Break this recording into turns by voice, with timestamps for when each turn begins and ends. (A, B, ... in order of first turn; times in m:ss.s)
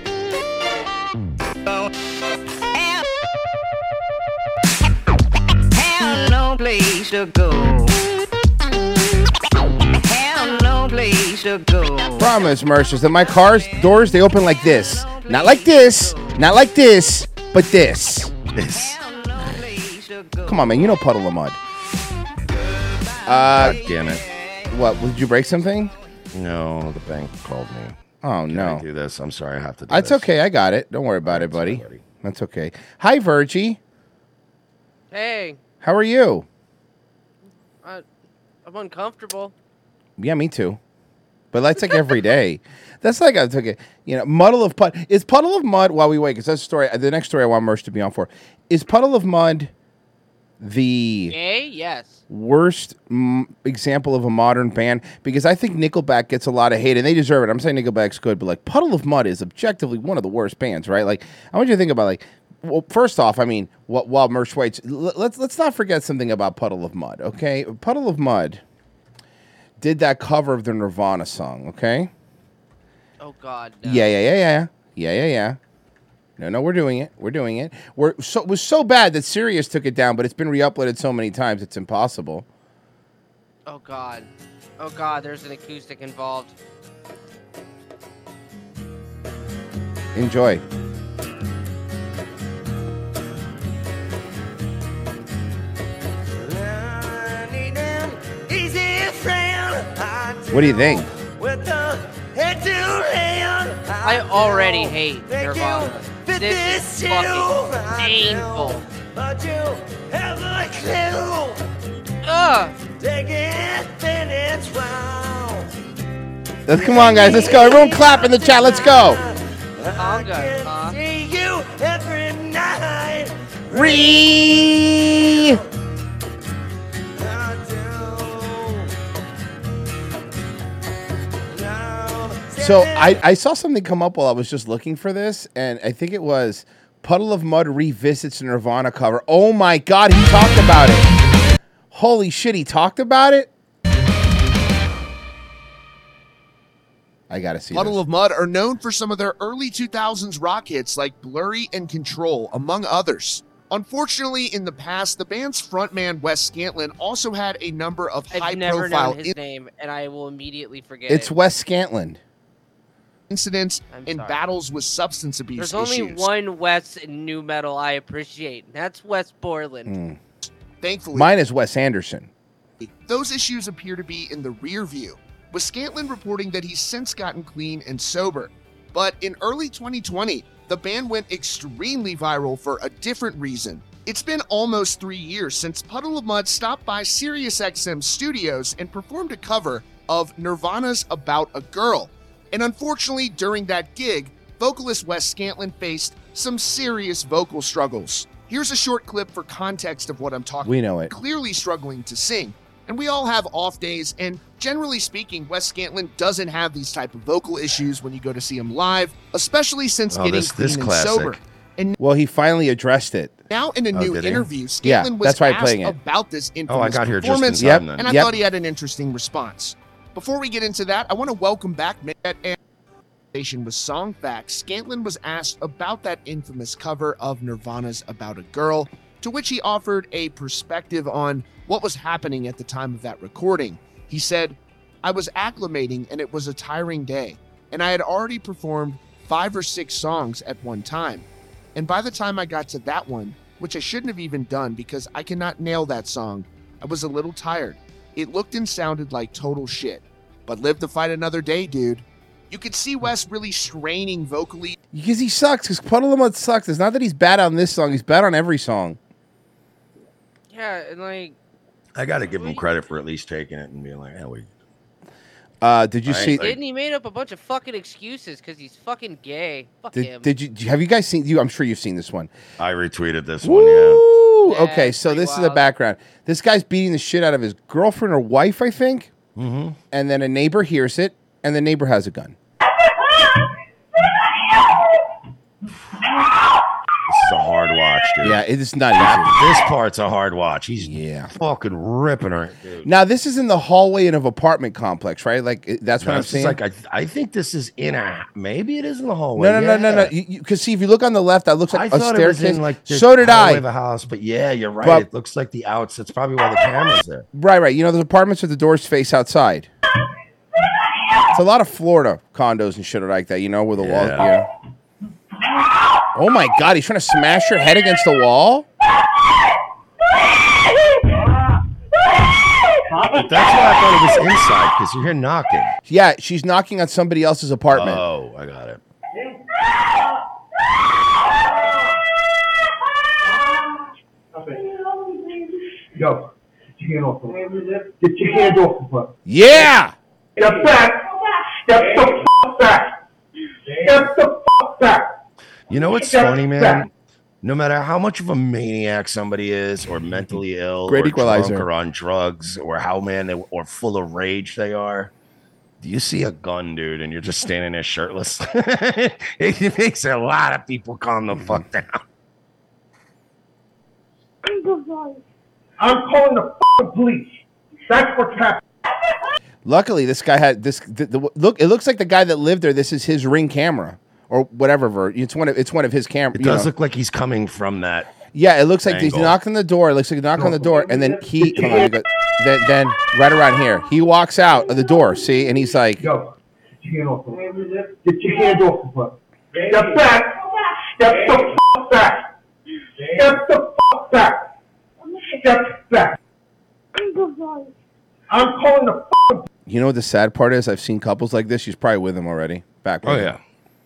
0:05.7-0:08.0 A
0:10.0-0:12.2 A
0:12.2-0:18.3 B
0:18.6-0:19.0 C
0:19.2-0:20.4 A
0:20.4-0:21.6 B
0:23.3-0:23.8 B
0:23.5-0:24.2 C
0:24.7-0:25.9 B
0:26.3-0:28.0 C
0:28.2-0:28.8 B
0:28.5-0:30.3 C
0:29.9-0:33.8 B
0:31.2-0:32.0 C
0:35.1-0:35.6 D
0:35.8-0:36.5 B
0:38.6-0:39.5 D
0:40.2-0:40.8 B
0:41.5-0:49.7 B
0:50.6-0:51.4 B
0:51.3-0:52.2 D
0:52.3-1:08.6 B
1:09.8-1:12.1 B
1:13.2-1:14.1 D
1:13.8-1:15.6 B
1:16.4-1:22.5 B
1:23.7-1:26.6 D
1:30.2-1:30.6 B
1:36.4-1:51.6 E
1:40.5-1:41.1 B
1:44.0-1:48.8 D
1:52.2-1:52.7 D
1:53.0-1:55.7 E
1:56.7-1:59.2 B
1:56.8-2:04.3 E
2:00.0-2:01.0 D
2:03.7-2:05.6 B
2:05.3-2:05.6 E
2:07.2-2:08.9 E
2:11.5-2:13.1 E
2:12.6-2:21.1 B
2:21.9-2:23.5 B
2:27.3-2:28.0 B
2:27.7-2:39.4 F
2:38.3-2:41.3 D
2:41.1-2:42.2 B
2:43.3-2:46.3 F
2:43.9-2:44.4 D
2:45.6-2:50.0 D
2:49.9-2:50.2 B
2:50.8-2:51.3 F
2:51.1-2:52.3 B
2:52.8-3:32.0 F
3:20.6-3:21.1 B
3:30.1-3:31.4 C
3:32.0-3:33.4 B
3:33.5-3:42.6 F
3:33.9-3:34.5 C
3:34.8-3:36.0 B
3:36.7-3:38.2 C
3:37.6-3:38.3 B
3:43.3-4:14.8 F
4:14.9-4:19.0 B
4:20.5-4:21.4 D
4:22.0-4:24.5 C
4:22.3-4:22.6 D
4:25.6-4:26.5 B
4:26.1-4:26.6 C
4:26.4-4:30.3 D
4:29.9-4:32.3 B
4:32.6-4:34.0 C
4:33.4-4:39.1 B
4:34.4-4:35.7 D
4:39.4-4:39.8 C
4:39.9-4:42.4 B
4:47.1-4:48.4 C
4:48.2-4:49.4 B
4:49.0-4:52.9 C
4:50.8-4:51.3 B
4:52.8-4:56.6 B
4:56.0-5:00.1 C
4:59.4-5:03.6 B
5:01.7-5:07.3 C
5:07.3-5:09.7 B
5:11.3-5:14.5 B
5:13.8-5:14.3 C
5:16.2-5:18.7 B
5:23.2-5:25.7 C
5:25.9-5:28.0 B
5:27.7-5:28.8 C
5:34.4-5:34.6 G
5:35.9-5:39.1 G
5:39.3-5:39.9 B
5:40.4-5:42.9 G
5:43.7-5:45.1 G
5:45.7-5:46.9 C
5:45.7-5:46.9 G
5:47.4-5:55.1 C
5:50.9-5:51.7 B
5:55.8-6:02.0 C
6:05.8-6:08.6 G
6:09.6-6:16.7 B
6:16.4-6:18.1 C
6:18.3-6:26.1 B
6:18.9-6:19.4 C
6:20.4-6:21.9 G
6:26.0-6:26.3 G
6:26.8-6:32.3 G
6:33.1-6:34.5 G
6:35.3-6:36.2 G
6:38.3-6:39.5 G
6:39.7-6:43.3 B
6:43.0-6:43.4 C